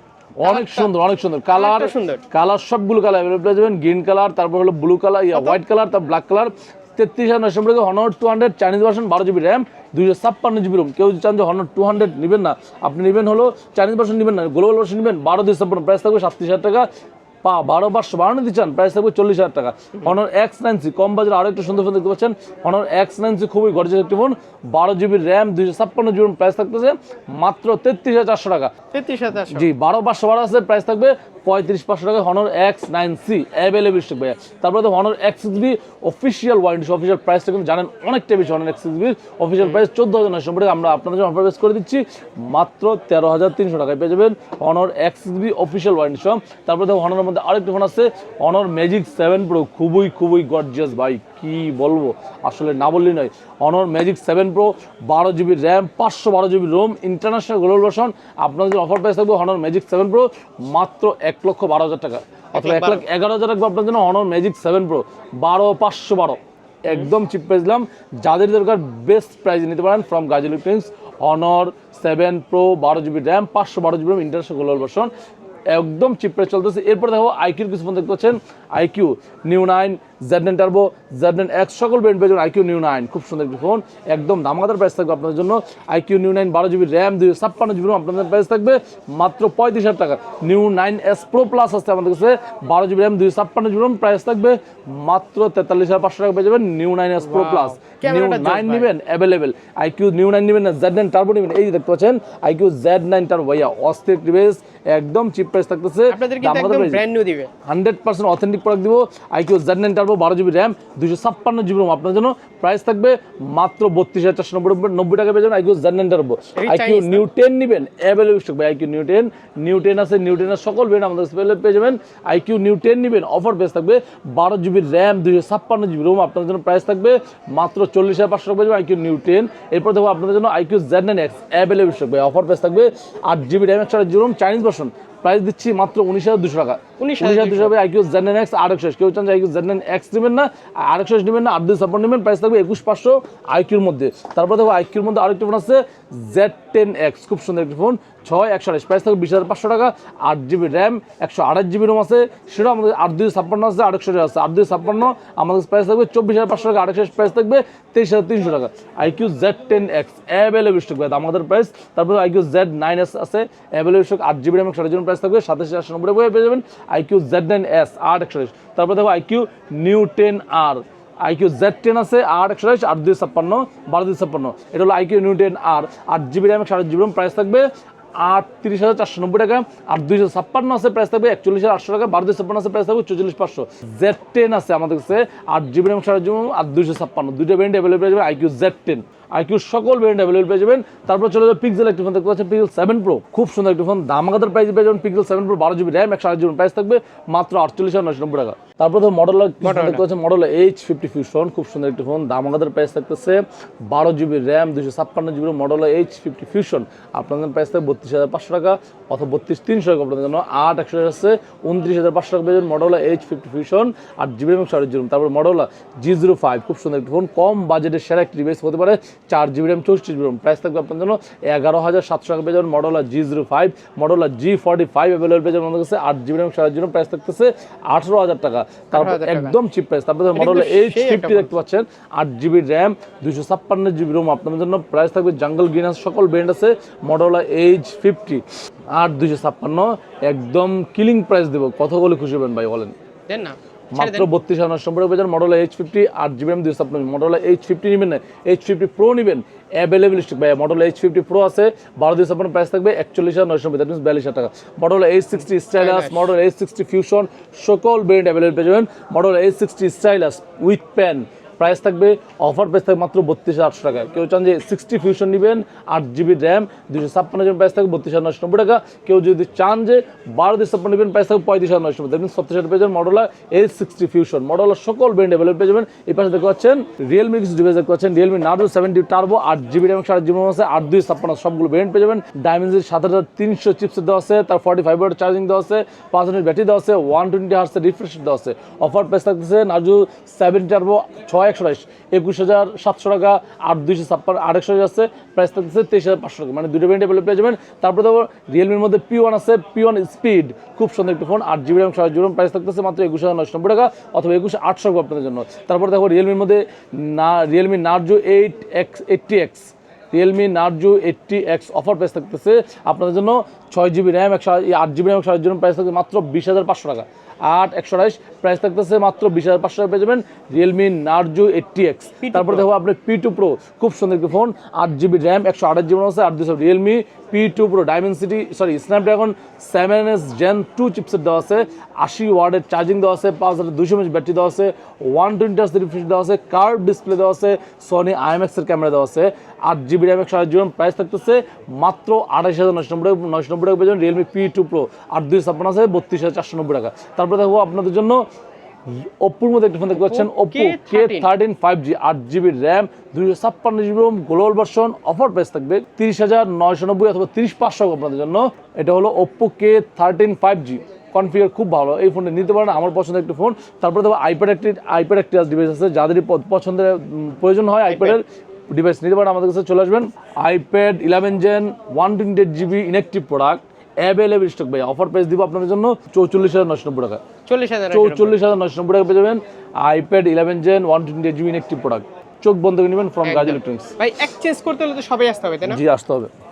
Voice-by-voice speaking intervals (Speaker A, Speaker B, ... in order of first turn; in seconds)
Speaker A: 0.4-16.9, 17.4-28.7, 29.5-75.1, 75.7-107.0, 107.6-177.7, 178.2-242.9, 243.9-348.3, 348.9-377.2, 377.9-384.0, 385.7-386.3
Speaker B: 0.4-0.9, 1.5-2.2, 5.3-5.6, 28.9-29.7, 62.5-63.0, 97.2-98.9, 106.1-107.5, 116.5-117.2, 137.0-137.7, 199.6-200.0, 228.9-229.6, 230.3-231.5, 243.3-244.3, 255.8-256.3, 322.2-322.7, 349.9-351.3, 367.9-368.2, 377.5-378.4, 383.2-385.8